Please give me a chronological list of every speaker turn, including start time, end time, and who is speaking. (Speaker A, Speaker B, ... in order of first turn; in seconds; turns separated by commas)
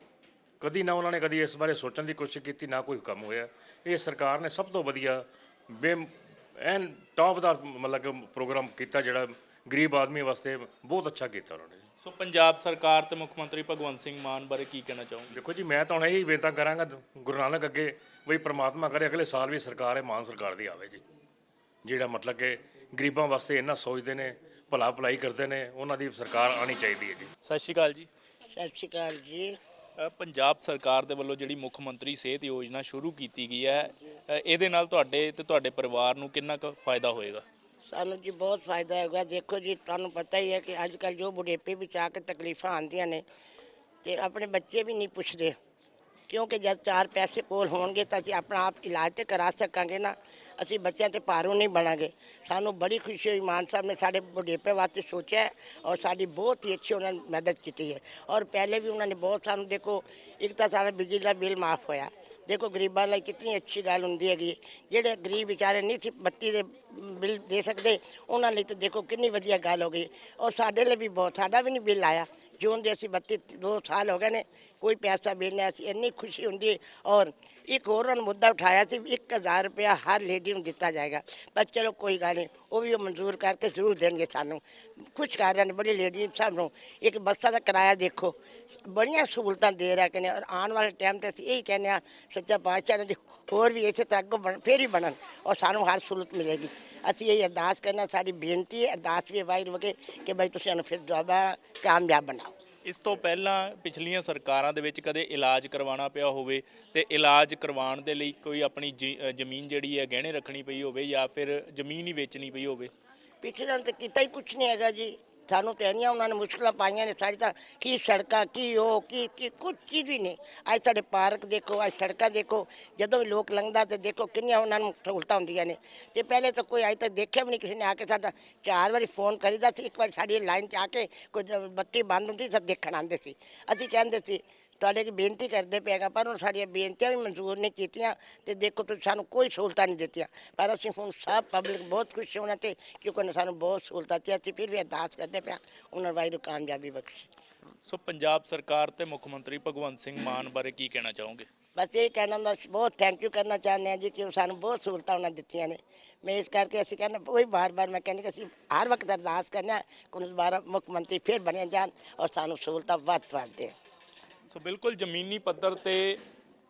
Speaker A: 0.6-11.8, Speaker B: 12.0-15.4, Speaker A: 15.3-21.0, Speaker A: 21.8-27.3, Speaker B: 27.4-28.1, Speaker C: 28.5-29.5, Speaker B: 30.0-37.4, Speaker C: 37.8-43.2, Speaker C: 44.0-45.6, Speaker C: 46.3-102.5, Speaker B: 102.8-112.9, Speaker C: 113.4-147.3, Speaker B: 147.8-151.5, Speaker C: 151.8-163.7, Speaker B: 164.5-166.2